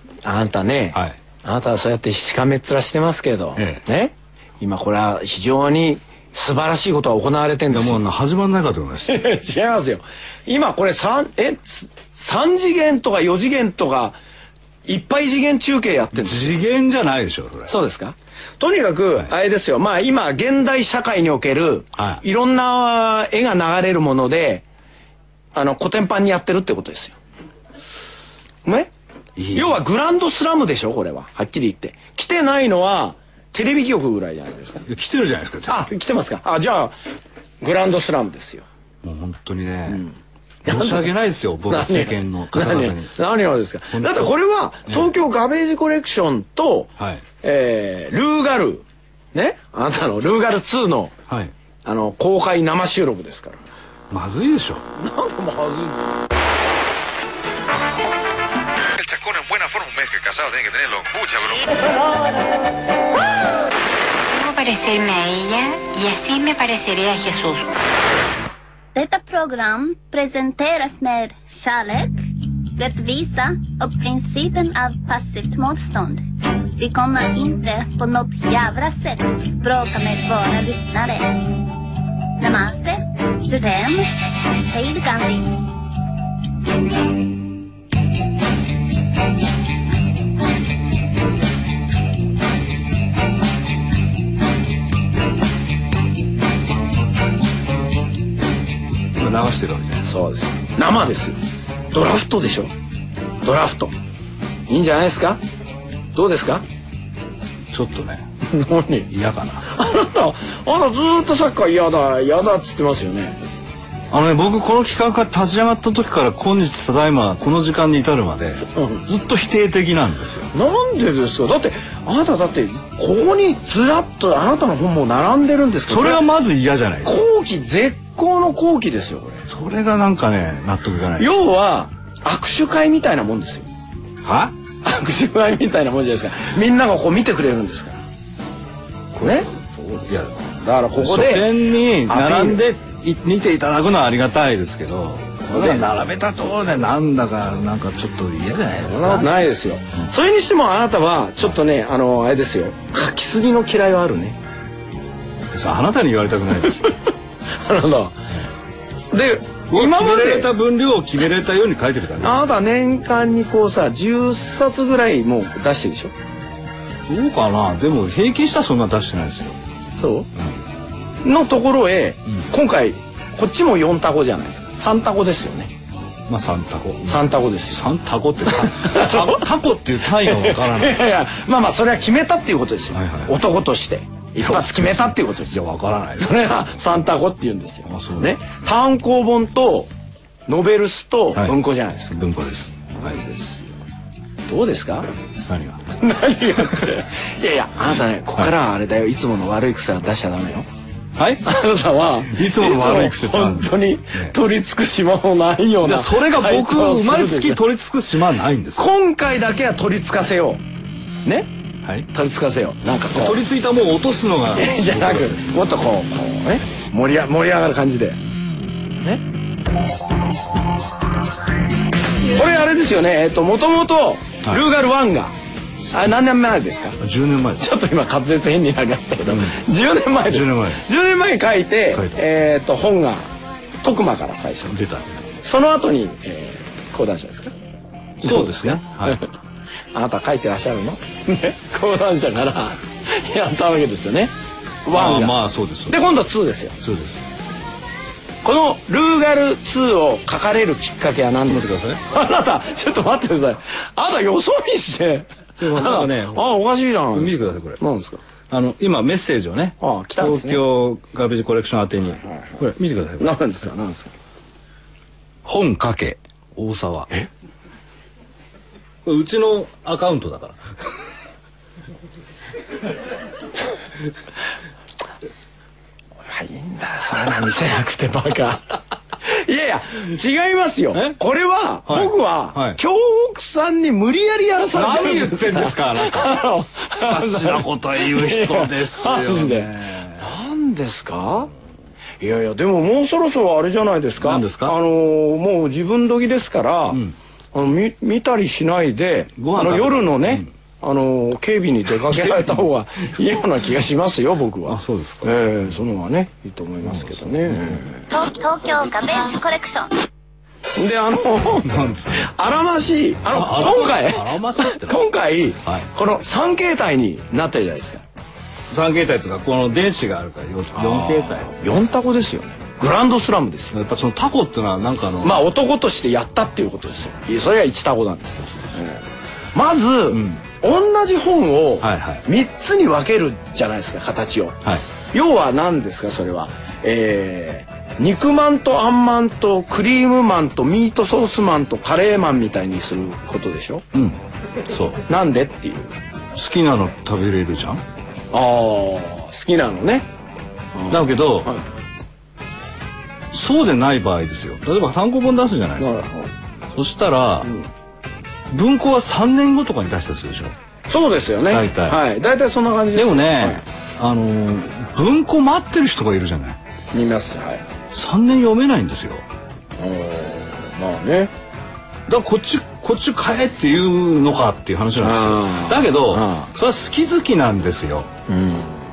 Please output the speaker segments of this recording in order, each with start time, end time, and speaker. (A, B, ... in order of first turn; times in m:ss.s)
0:00.2-0:08.0 A
0:03.6-0:03.8 B
0:07.7-0:09.2 B
0:09.1-0:14.2 A
0:14.8-0:16.6 A
0:16.2-0:17.7 B
0:17.7-0:24.6 A
0:22.0-0:22.2 B
0:25.5-0:27.2 A
0:28.6-0:28.9 A
0:29.4-0:29.8 B
0:29.5-0:34.8 A
0:34.8-0:35.9 B
0:35.7-0:36.9 A
0:37.6-0:38.6 A
0:39.0-0:40.0 B
0:39.9-0:40.1 A
0:40.6-0:43.1 B
0:40.6-0:41.1 A
0:41.7-0:46.9 A
0:43.9-0:44.3 B
0:47.0-0:47.2 B
0:47.4-0:51.1 A
0:51.3-0:51.5 B
0:51.8-0:53.6 A
0:54.1-0:54.8 B
0:55.0-0:56.2 A
0:59.0-1:01.8 C
1:04.3-1:07.7 D
1:08.9-1:12.2 E
1:12.8-1:16.2 E
1:16.8-1:21.6 E
1:22.4-1:24.1 E
1:24.7-1:25.6 E
1:39.1-1:40.1 B
1:40.0-1:41.4 A
1:41.9-1:42.7 A
1:43.4-1:43.9 A
1:44.7-1:45.4 A
1:46.1-1:46.6 A
1:47.7-1:48.3 B
1:48.5-1:49.1 A
1:49.1-1:49.7 B
1:49.6-1:53.4 A
1:54.1-2:00.5 B
1:58.7-1:59.0 A
2:00.5-2:06.2 A
2:05.9-2:07.2 B
2:07.0-2:09.4 A
2:09.5-2:11.3 B
2:11.2-2:13.7 A
2:14.2-2:14.5 B
2:14.8-2:18.0 A
2:19.1-2:19.4 B
2:19.2-2:22.6 A
2:20.1-2:20.3 B
2:21.0-2:29.3 B
2:25.5-2:25.9 A
2:28.9-2:34.4 A
2:35.5-2:37.0 B
2:37.5-2:38.3 A
2:39.1-2:40.5 A
2:39.7-2:42.5 B
2:42.2-2:46.1 A
2:47.1-2:49.6 B
2:50.0-2:50.3 A
2:51.2-2:55.7 A
2:56.3-3:01.1 B
2:57.0-2:57.8 A
2:58.5-2:59.5 A
3:00.2-3:05.6 A
3:02.9-3:03.4 B
3:04.4-3:06.7 B
3:06.2-3:09.9 A
3:07.8-3:08.4 B
3:10.5-3:12.2 A
3:12.1-3:13.2 B
3:13.0-3:13.6 A
3:14.5-3:15.1 A
3:15.5-3:15.8 B
3:15.9-3:20.7 A
3:21.2-3:21.4 B
3:21.4-3:27.6 A
3:22.2-3:24.4 B
3:25.8-3:28.9 B
3:28.8-3:30.6 A
3:31.2-3:31.5 A
3:32.1-3:33.4 A
3:33.1-3:35.8 B
3:34.5-3:38.2 A
3:42.3-3:45.3 A
3:45.9-3:47.0 A
3:47.0-3:47.6 B
3:47.6-3:53.3 A
3:49.3-3:49.6 B
3:50.2-3:50.8 B
3:51.9-3:52.2 B
3:53.8-3:54.8 A
3:54.7-3:55.2 B
3:55.4-3:57.5 A
3:58.2-3:59.2 B
3:58.2-3:59.3 A
3:59.9-4:04.3 A
4:04.8-4:06.8 A
4:04.9-4:06.0 B
4:06.8-4:07.2 B
4:08.4-4:18.2 A
4:11.4-4:12.0 B
4:15.6-4:16.5 B
4:17.1-4:17.8 B
4:18.5-4:23.4 B
4:19.8-4:20.6 A
4:23.2-4:24.2 A
4:25.4-4:27.1 B
4:29.0-4:30.6 B
4:36.3-4:51.5 A
4:40.9-4:41.2 B
4:41.9-4:42.8 B
4:44.7-4:46.4 B
4:47.0-4:50.3 B
4:52.2-4:57.0 A
4:54.2-4:54.7 B
4:57.5-5:08.0 A
4:59.4-5:00.5 B
5:02.0-5:02.6 B
5:04.7-5:05.3 B
5:06.8-5:07.8 B
5:08.1-5:09.9 E
5:10.8-5:18.0 A
5:11.6-5:12.3 B
5:13.3-5:15.1 B
5:18.7-5:21.7 B
5:20.7-5:23.8 A
5:23.7-5:25.4 B
5:25.2-5:43.8 A
5:30.1-5:30.4 B
5:31.8-5:32.2 B
5:43.9-5:45.0 B
5:45.1-5:45.9 A
5:46.3-5:47.8 B
5:48.3-5:50.0 A
5:50.7-5:51.6 A
5:50.9-5:51.5 B
5:53.3-5:56.1 B
5:55.8-5:56.3 A
5:56.7-5:57.5 B
5:58.5-6:00.5 B
6:00.9-6:03.6 A
6:01.5-6:02.0 B
6:02.9-6:06.6 B
6:06.9-6:07.6 A
6:07.9-6:09.2 B
6:09.8-6:11.3 A
6:12.1-6:18.1 B
6:15.0-6:16.5 A
6:18.3-6:18.8 A